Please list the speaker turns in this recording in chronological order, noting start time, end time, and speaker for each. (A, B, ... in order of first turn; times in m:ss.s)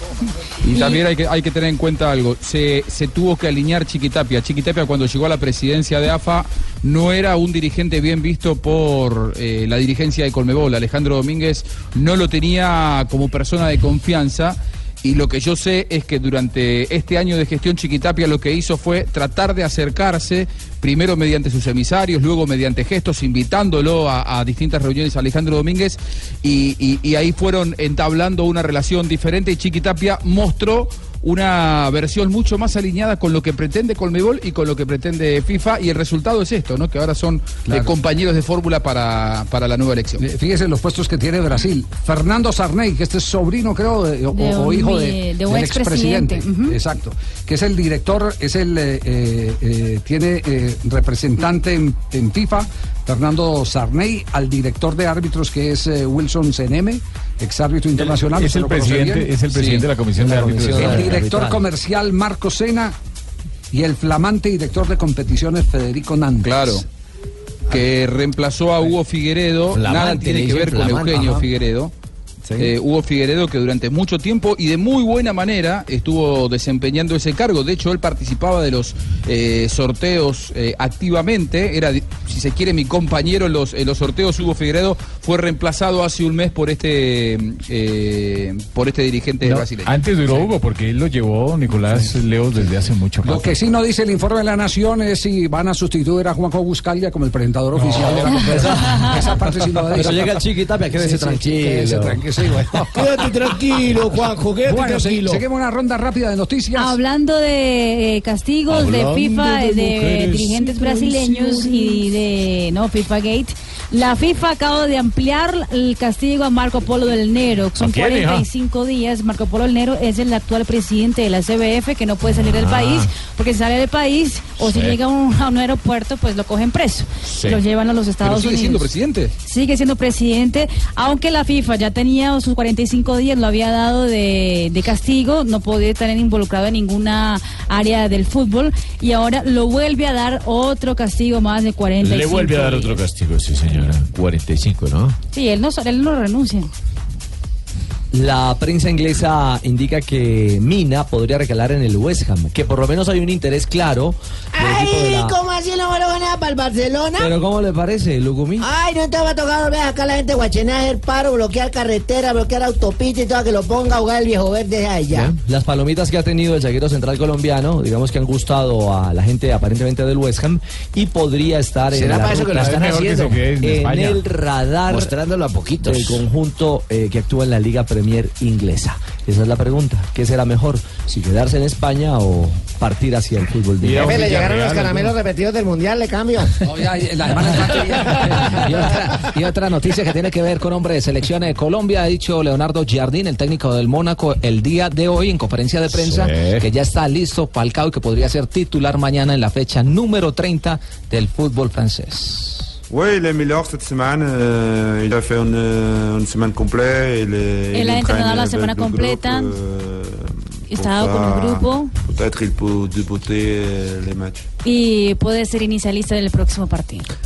0:00.6-0:40.2 A
0:37.6-0:37.9 B
0:40.2-0:59.3 B
0:44.3-0:46.8 C
0:58.0-1:01.1 D
0:59.5-0:59.8 A
1:00.2-1:01.6 E
1:00.7-1:03.0 B
1:03.7-1:06.8 B
1:06.4-1:06.8 A
1:07.7-1:11.9 A
1:09.7-1:11.4 F
1:12.6-1:29.9 A
1:29.4-1:33.5 D
1:33.2-1:43.3 B
1:38.2-1:39.2 C
1:38.5-1:38.9 E
1:39.9-1:42.2 E
1:43.0-1:45.3 G
1:44.6-1:47.0 B
1:46.7-2:08.9 C
1:48.7-1:49.2 F
1:57.8-1:58.4 H
2:02.3-2:03.1 H
2:04.6-2:05.0 H
2:08.2-2:09.3 A
2:09.4-2:23.0 C
2:22.0-2:25.2 H
2:25.3-2:26.7 C
2:28.1-2:35.4 E
2:34.5-2:37.3 G
2:37.2-2:38.6 E
2:38.6-2:45.3 G
2:45.2-2:52.7 E
2:51.9-2:53.4 F
2:52.4-2:54.2 D
2:53.6-2:55.1 E
2:54.8-2:56.2 F
2:55.8-3:04.3 E
3:03.8-3:05.1 D
3:04.0-3:06.5 G
3:06.6-3:08.5 B
3:08.0-3:22.7 I
3:15.9-3:16.7 H
3:22.9-3:34.4 J
3:27.7-3:29.5 C
3:30.7-3:31.9 C
3:34.6-3:37.0 C